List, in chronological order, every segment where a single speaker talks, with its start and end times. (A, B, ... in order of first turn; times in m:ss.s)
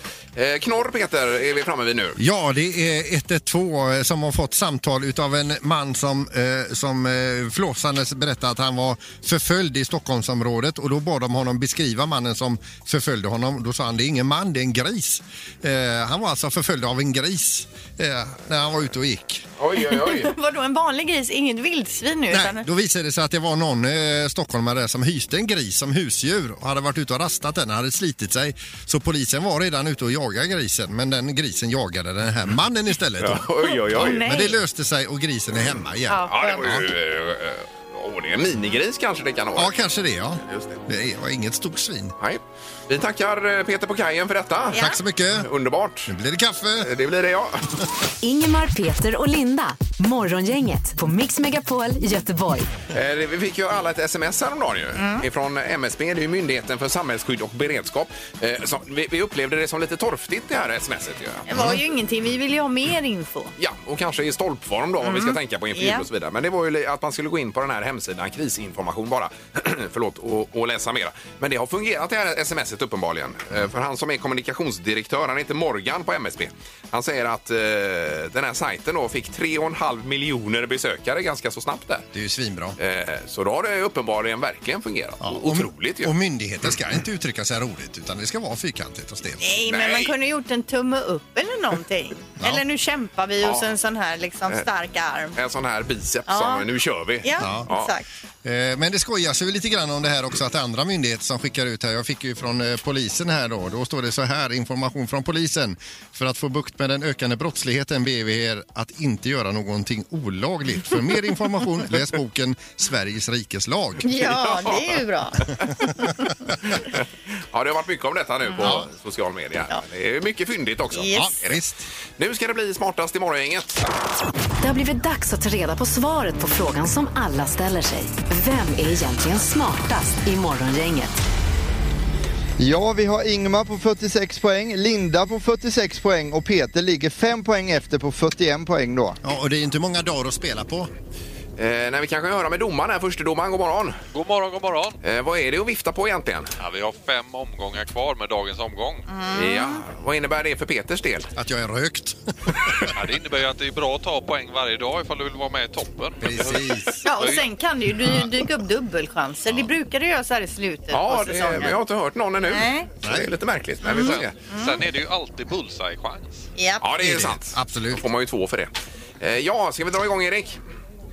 0:00.4-0:02.2 A
0:02.2-0:19.5 B
0:19.6-0:20.3 A
0:19.8-0:22.7 C
0:22.3-0:36.9 B
0:33.2-0:34.2 A
0:33.7-0:34.6 C
0:36.1-0:36.7 C
0:36.3-0:39.7 A
0:39.6-0:42.2 B
0:40.5-0:40.8 A
0:42.2-0:46.1 A
0:44.7-0:45.0 C
0:44.7-0:45.5 B
0:46.1-0:46.9 B
0:46.8-0:47.8 A
0:48.2-0:52.7 D
0:52.9-1:01.6 A
0:55.0-0:55.2 C
1:01.5-1:03.5 C
1:03.6-1:22.1 A
1:05.0-1:06.0 C
1:22.1-1:22.8 B
1:22.8-1:26.1 A
1:25.2-1:29.4 B
1:29.4-1:35.4 C
1:29.7-1:30.1 A
1:33.4-1:33.7 A
1:35.4-1:37.9 A
1:36.3-1:36.6 C
1:37.2-1:38.0 C
1:37.4-1:37.7 B
1:38.4-1:54.2 B
1:54.0-1:56.2 C
1:54.2-1:55.7 A
1:56.7-1:57.0 A
1:57.5-2:01.6 A
1:58.6-1:58.9 B
2:00.9-2:01.3 C
2:01.1-2:01.8 B
2:02.2-2:03.9 A
2:04.6-2:11.2 D
2:12.6-2:19.2 E
2:19.2-2:20.9 B
2:21.6-2:24.0 A
2:24.1-2:25.0 F
2:25.0-2:26.5 A
2:26.6-2:29.0 F
2:29.1-2:29.8 C
2:29.3-2:31.3 A
2:31.4-2:32.9 B
2:33.0-2:37.5 F
2:36.2-2:36.9 B
2:37.0-2:41.8 C
2:40.9-2:44.3 A
2:42.5-2:42.9 C
2:43.0-2:43.3 B
2:43.8-2:44.8 C
2:43.9-2:46.4 F
2:46.6-2:46.8 C
2:46.8-2:50.6 A
2:47.0-2:48.0 B